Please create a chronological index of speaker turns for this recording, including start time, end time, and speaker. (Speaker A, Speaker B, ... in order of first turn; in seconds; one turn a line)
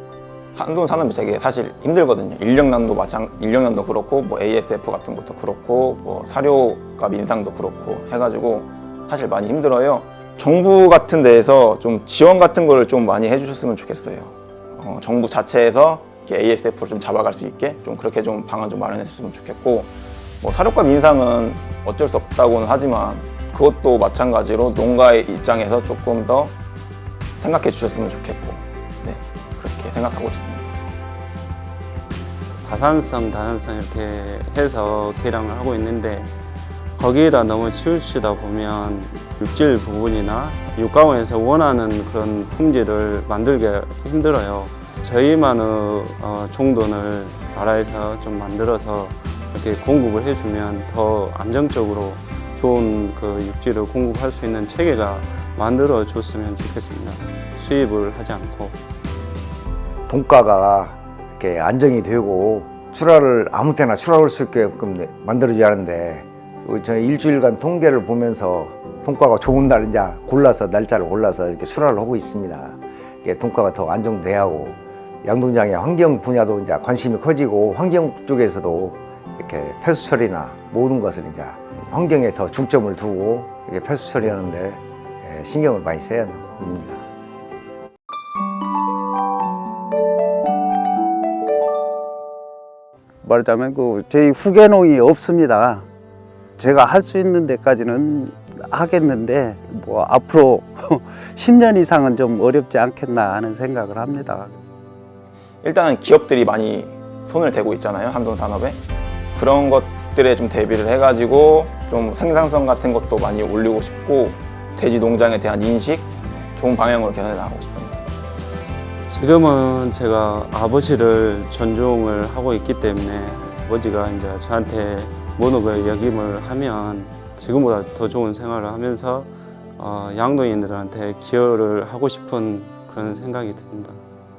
Speaker A: 0.6-26.5
Speaker A: 27.4-30.7
Speaker B: 32.6-36.3
Speaker B: 37.0-58.8
Speaker C: 60.1-87.0
Speaker D: 93.2-95.9
Speaker D: 96.6-104.6
Speaker A: 105.6-108.8
Speaker A: 109.3-118.0
Speaker B: 119.1-134.0